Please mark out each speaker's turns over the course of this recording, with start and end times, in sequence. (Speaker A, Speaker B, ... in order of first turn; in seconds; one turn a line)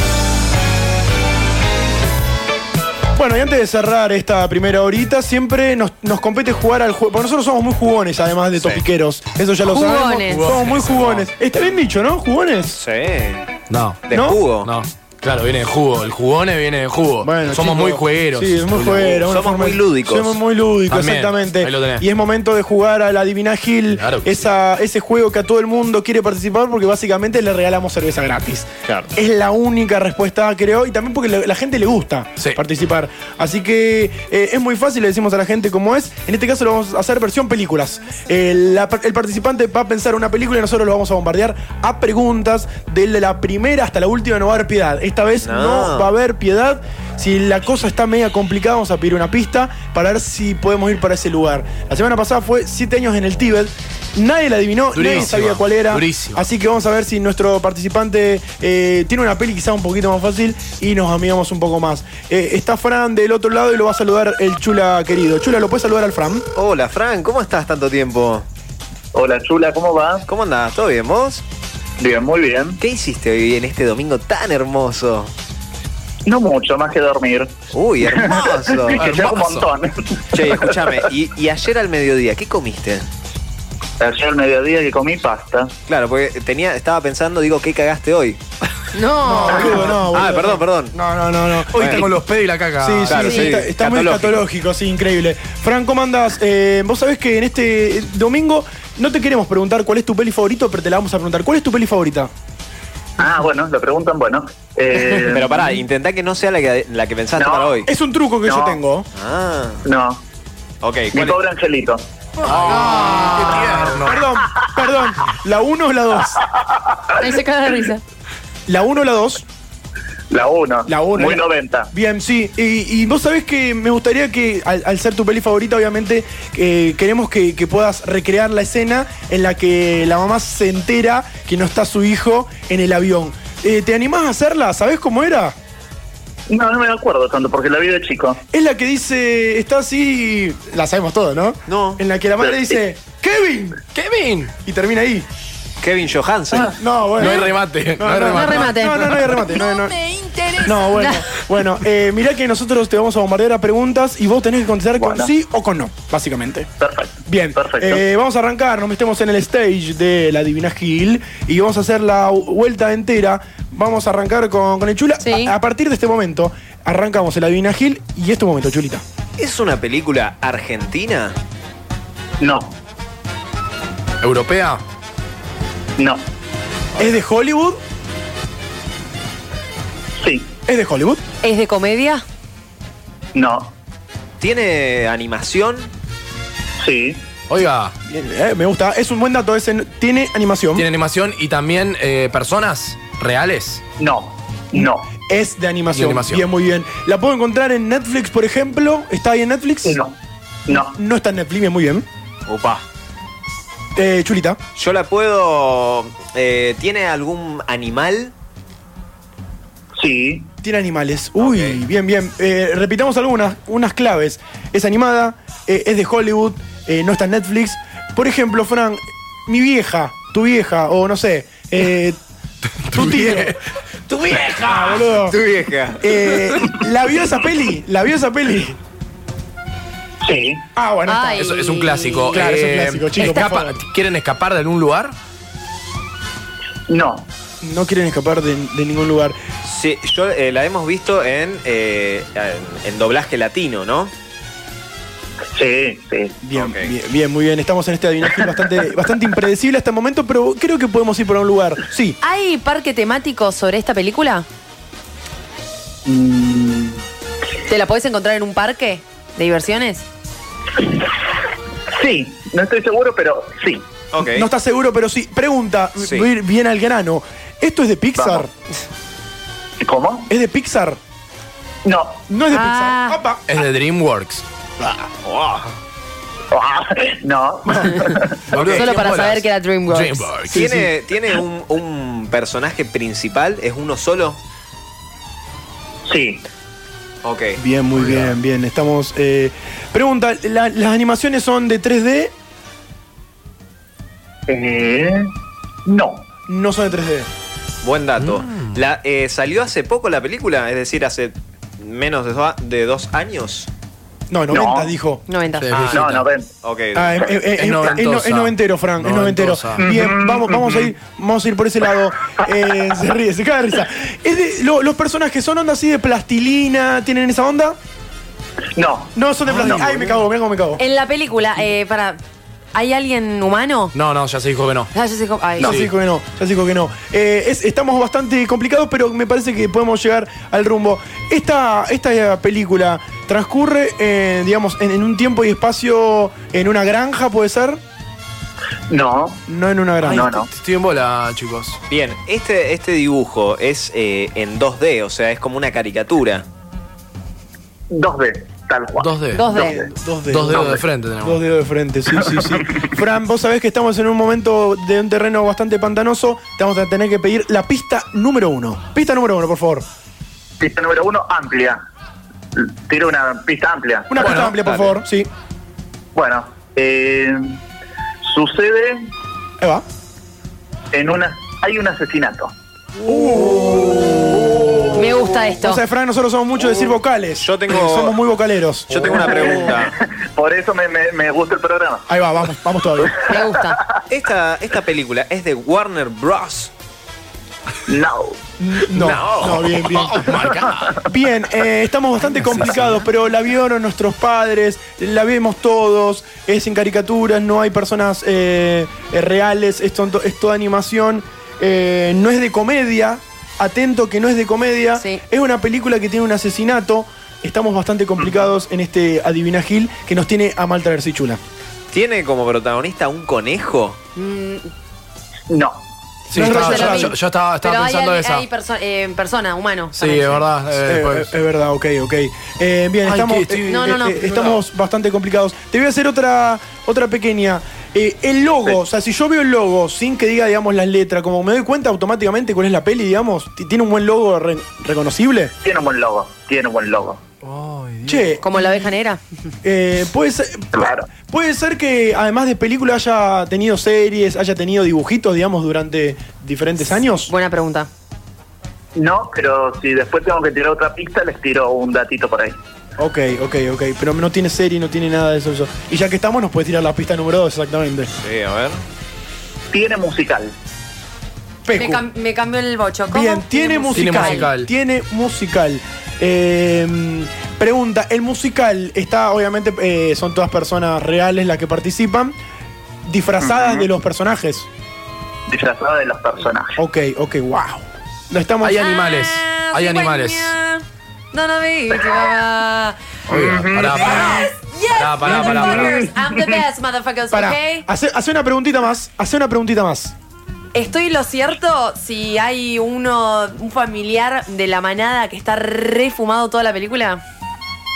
Speaker A: 3.1-12.8
Speaker B: 9.6-10.6
Speaker C: 10.0-11.3
Speaker D: 12.7-13.5
Speaker C: 13.7-14.0
Speaker D: 14.1-14.7
Speaker A: 14.1-14.4
Speaker C: 14.6-18.7
Speaker A: 17.2-66.5
Speaker D: 18.8-20.4
Speaker C: 20.9-22.0
Speaker C: 23.9-24.4
Speaker D: 45.4-46.1
Speaker C: 54.9-56.4
Speaker D: 66.5-68.5
Speaker E: 69.1-70.2
Speaker D: 70.3-71.4
Speaker E: 72.0-72.8
Speaker D: 72.8-75.3
Speaker E: 76.2-81.1
Speaker D: 77.7-79.1
Speaker C: 78.9-79.7
Speaker D: 80.3-83.1
Speaker E: 84.0-85.7
Speaker D: 85.9-88.4
Speaker B: 88.9-90.0
Speaker A: 89.2-92.2
Speaker D: 89.5-90.9
Speaker D: 91.7-92.0
Speaker C: 91.7-93.4
Speaker A: 92.8-102.3
Speaker D: 93.1-94.4
Speaker E: 103.2-105.5
Speaker D: 105.3-107.9
Speaker E: 107.3-107.8
Speaker A: 107.8-109.1
Speaker E: 108.4-108.8
Speaker D: 109.1-109.8
Speaker E: 109.8-110.2
Speaker D: 110.8-111.4
Speaker E: 111.1-112.0
Speaker C: 112.4-114.2
Speaker B: 112.7-113.7
Speaker A: 113.3-116.4
Speaker E: 116.5-117.3
Speaker B: 117.2-118.0
Speaker A: 118.7-119.4
Speaker E: 120.3-121.9
Speaker A: 120.8-135.5
Speaker E: 136.5-138.4
Speaker A: 138.5-143.8
Speaker D: 141.7-142.0
Speaker E: 142.4-142.8
Speaker C: 143.9-144.5
Speaker A: 144.6-145.3
Speaker D: 145.8-146.8
Speaker A: 146.7-149.9
Speaker C: 147.2-149.2
Speaker B: 148.2-151.3
Speaker A: 150.6-156.7
Speaker E: 155.0-155.3
Speaker E: 156.8-158.0
Speaker A: 157.3-169.0
Speaker B: 165.2-165.5
Speaker D: 169.4-171.3
Speaker E: 172.4-172.7
Speaker C: 174.2-174.8
Speaker E: 176.0-176.2
Speaker A: 177.0-177.8
Speaker E: 180.2-180.5
Speaker A: 180.7-181.2
Speaker B: 181.4-182.2
Speaker E: 183.3-183.7
Speaker D: 184.4-185.9
Speaker E: 186.8-187.2
Speaker C: 187.5-187.9
Speaker A: 188.1-190.9
Speaker C: 190.8-193.8
Speaker E: 194.0-195.1
Speaker A: 194.8-200.0
Speaker C: 195.9-196.4
Speaker E: 199.8-200.1
Speaker E: 200.7-201.0
Speaker A: 200.7-202.1
Speaker D: 202.5-202.8
Speaker A: 203.9-204.6
Speaker D: 204.8-208.3
Speaker E: 209.9-210.5
Speaker A: 210.6-222.2
Speaker D: 211.4-211.8
Speaker C: 222.8-225.0
Speaker A: 222.9-223.6
Speaker A: 224.6-225.4
Speaker D: 225.2-226.7
Speaker A: 226.0-228.8
Speaker E: 230.2-230.6
Speaker A: 230.8-231.5
Speaker B: 231.1-232.4
Speaker C: 231.4-235.1
Speaker A: 232.3-233.8
Speaker B: 233.2-233.5
Speaker E: 236.9-237.3
Speaker A: 237.6-239.4
Speaker D: 239.6-244.1
Speaker E: 245.5-246.4
Speaker A: 246.4-252.2
Speaker D: 246.5-246.9
Speaker B: 252.2-254.4
Speaker E: 256.0-257.0
Speaker B: 257.7-260.0
Speaker E: 261.9-263.9
Speaker D: 264.1-264.5
Speaker A: 264.2-268.5
Speaker D: 266.0-266.3
Speaker E: 268.1-268.4
Speaker E: 269.8-270.3
Speaker A: 270.3-271.0
Speaker E: 271.8-272.2
Speaker A: 272.3-273.4
Speaker B: 272.5-273.2
Speaker C: 273.5-274.4
Speaker D: 275.2-275.7
Speaker E: 276.5-278.4
Speaker A: 277.6-278.7
Speaker B: 277.9-280.3
Speaker C: 278.5-280.7
Speaker A: 280.5-280.9
Speaker D: 280.5-284.4
Speaker E: 286.1-286.4
Speaker D: 287.2-287.6
Speaker A: 287.6-292.3
Speaker E: 294.5-295.3
Speaker E: 295.8-296.3
Speaker A: 296.5-297.3
Speaker D: 297.8-303.7
Speaker C: 298.2-298.7
Speaker A: 304.3-305.2
Speaker E: 304.5-304.9
Speaker B: 305.3-305.7
Speaker C: 305.6-306.2
Speaker D: 305.7-307.4
Speaker E: 305.9-306.5
Speaker A: 306.9-317.8
Speaker C: 307.6-309.8
Speaker E: 309.8-310.9
Speaker E: 312.4-312.7
Speaker E: 318.7-319.1
Speaker A: 319.1-320.8
Speaker C: 319.5-320.2
Speaker B: 320.8-322.2
Speaker B: 322.7-323.9
Speaker C: 323.9-324.9
Speaker B: 324.9-325.8
Speaker A: 325.6-337.8
Speaker C: 325.6-325.9
Speaker E: 338.9-339.4
Speaker A: 339.5-340.5
Speaker E: 340.1-340.5
Speaker C: 340.5-341.8
Speaker D: 341.9-346.4
Speaker E: 347.9-349.9
Speaker C: 349.0-349.6
Speaker B: 349.3-349.8
Speaker A: 349.5-359.8
Speaker C: 350.3-351.4
Speaker D: 350.5-350.8
Speaker E: 352.1-352.8
Speaker E: 360.6-361.8
Speaker E: 362.5-364.1
Speaker A: 364.1-365.3
Speaker C: 364.2-365.0
Speaker E: 366.1-367.6
Speaker E: 368.2-369.1
Speaker A: 369.6-369.8
Speaker E: 370.9-372.5
Speaker A: 373.1-379.7
Speaker B: 374.9-375.8
Speaker D: 377.4-378.2
Speaker D: 378.9-379.9
Speaker E: 379.2-382.1
Speaker A: 382.1-383.2
Speaker E: 383.0-383.7
Speaker B: 383.2-383.8
Speaker D: 384.1-386.7
Speaker E: 387.9-388.4
Speaker A: 388.6-411.4
Speaker D: 388.9-389.8
Speaker C: 389.9-390.9
Speaker C: 392.4-393.0
Speaker B: 404.9-405.2
Speaker D: 411.9-414.0
Speaker B: 414.1-414.7
Speaker E: 415.5-415.8
Speaker C: 416.3-418.4
Speaker A: 416.3-417.1
Speaker B: 416.3-420.4
Speaker C: 420.0-421.3
Speaker A: 420.7-435.5
Speaker C: 423.0-424.5
Speaker B: 423.7-424.3
Speaker E: 435.6-437.2
Speaker C: 437.4-438.3
Speaker A: 438.0-438.9
Speaker B: 438.4-439.2
Speaker A: 439.6-447.3
Speaker E: 440.7-441.1
Speaker B: 447.3-447.9
Speaker E: 448.9-452.6
Speaker A: 453.0-458.1
Speaker D: 458.1-458.8
Speaker E: 459.7-460.5
Speaker A: 461.6-462.0
Speaker B: 461.7-464.5
Speaker A: 463.1-472.4
Speaker C: 463.9-464.7
Speaker A: 473.0-474.7
Speaker E: 473.4-473.9
Speaker E: 475.5-476.8
Speaker A: 476.8-478.8
Speaker C: 478.6-480.5
Speaker B: 478.8-483.0
Speaker C: 483.3-486.1
Speaker E: 483.3-484.4
Speaker B: 484.0-487.9
Speaker E: 485.3-486.6
Speaker A: 487.3-490.1
Speaker B: 490.7-497.2